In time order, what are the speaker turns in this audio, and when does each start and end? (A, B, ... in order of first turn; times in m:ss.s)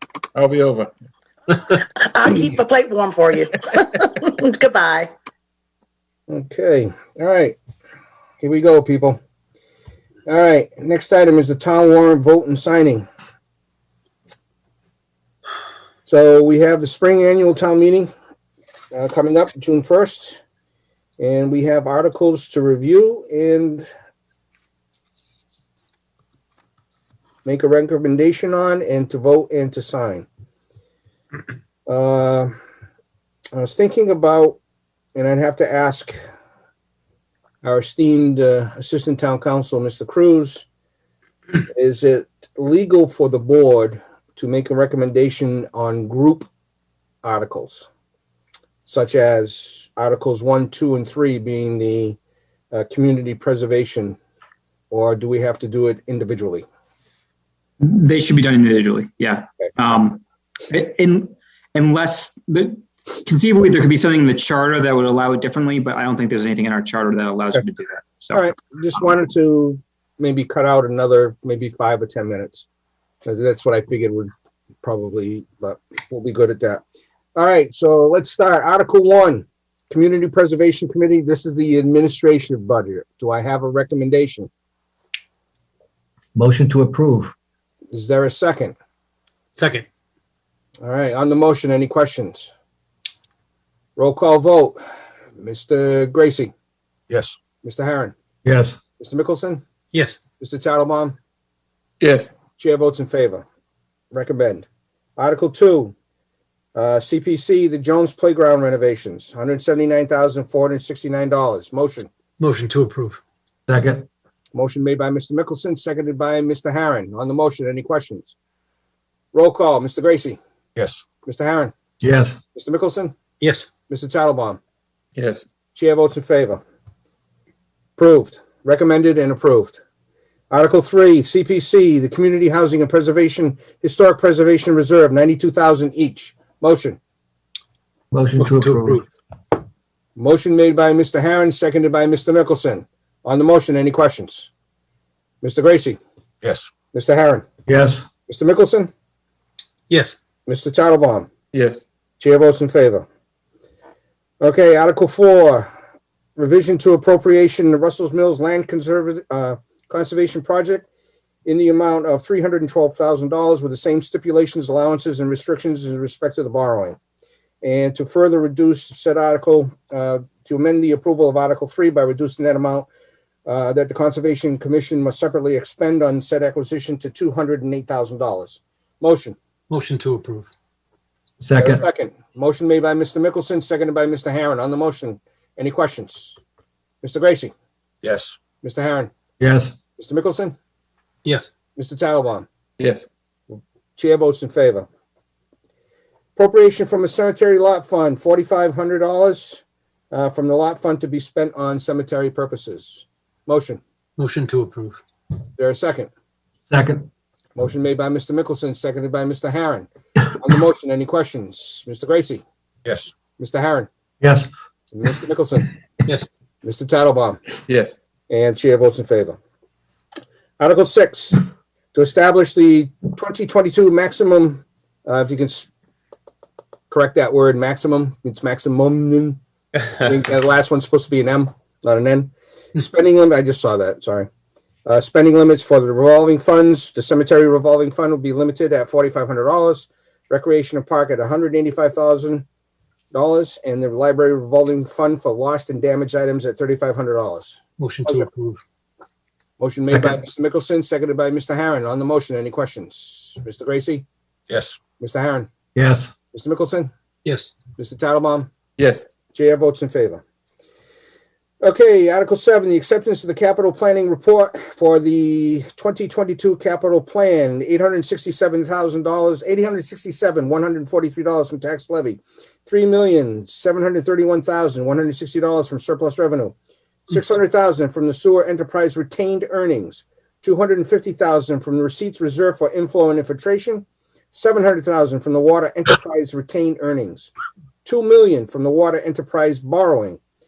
0:00.4-0:00.9 A
0:02.1-0:05.1 B
0:06.3-0:07.6 C
0:08.4-0:09.2 C
0:10.3-0:13.1 C
0:16.0-0:18.1 C
0:18.9-0:20.4 C
0:21.2-0:23.9 C
0:27.4-0:30.3 C
0:31.9-0:32.6 C
0:33.5-0:34.6 C
0:35.2-0:36.2 C
0:37.6-0:40.7 C
0:41.7-0:46.5 C
0:47.2-0:47.9 C
0:48.9-0:52.2 C
0:52.7-0:54.2 C
0:54.9-0:56.6 C
0:57.8-1:08.5 D
1:08.3-1:12.7 C
1:13.2-1:14.3 C
1:14.8-1:16.8 C
1:17.4-1:24.5 C
1:26.4-1:27.3 E
1:27.9-1:28.8 C
1:29.6-1:29.9 F
1:30.8-1:32.5 C
1:34.0-1:34.8 C
1:35.4-1:36.5 C
1:37.1-1:37.4 A
1:37.6-1:38.1 C
1:38.4-1:38.8 E
1:39.0-1:39.6 C
1:39.9-1:40.2 F
1:40.4-1:41.2 C
1:42.0-1:42.3 A
1:42.6-1:43.4 C
1:44.1-1:45.9 C
1:46.8-1:52.1 C
1:52.4-1:53.2 F
1:53.7-1:54.1 E
1:54.5-1:58.3 C
1:59.3-2:00.4 C
2:00.8-2:01.0 A
2:01.2-2:01.7 C
2:02.0-2:02.4 E
2:02.5-2:03.2 C
2:03.4-2:03.7 F
2:03.9-2:04.6 C
2:05.2-2:05.4 A
2:05.8-2:06.6 C
2:08.0-2:09.8 C
2:10.5-2:17.0 C
2:18.1-2:19.0 E
2:18.4-2:19.0 F
2:20.2-2:24.5 C
2:25.4-2:26.0 C
2:26.4-2:26.7 A
2:26.9-2:27.5 C
2:27.7-2:28.1 E
2:28.3-2:28.9 C
2:29.9-2:30.2 F
2:30.5-2:31.3 C
2:31.5-2:31.8 A
2:32.2-2:33.0 C
2:34.4-2:35.7 C
2:36.4-2:40.9 C
2:41.4-2:47.0 C
2:47.6-2:52.9 C
2:53.5-2:59.4 C
2:59.7-3:00.5 F
3:01.4-3:01.8 E
3:01.6-3:06.4 C
3:07.0-3:07.5 C
3:08.0-3:08.4 A
3:08.6-3:09.1 C
3:09.4-3:09.8 E
3:10.0-3:10.6 C
3:11.8-3:12.5 C
3:12.8-3:13.1 A
3:14.0-3:14.9 C
3:16.4-3:23.8 C
3:24.2-3:25.0 F
3:25.6-3:26.1 C
3:26.7-3:27.1 E
3:27.6-3:32.4 C
3:32.8-3:33.1 A
3:33.4-3:33.9 C
3:34.2-3:34.5 E
3:34.9-3:35.7 C
3:36.6-3:37.4 C
3:37.7-3:38.0 A
3:38.3-3:39.4 C
3:40.6-3:41.4 C
3:41.9-3:45.7 C
3:46.9-3:49.4 C
3:49.9-3:54.3 C
3:54.9-4:02.4 C
4:03.1-4:08.2 C
4:07.8-4:08.6 F
4:09.6-4:14.1 C
4:09.9-4:10.2 E
4:14.5-4:14.8 A
4:15.0-4:15.5 C
4:15.8-4:16.1 E
4:16.3-4:16.9 C
4:17.2-4:17.5 F
4:17.8-4:18.5 C
4:18.8-4:19.1 A
4:19.3-4:20.2 C
4:21.6-4:36.6 C
4:37.1-4:47.3 C
4:47.8-4:50.2 C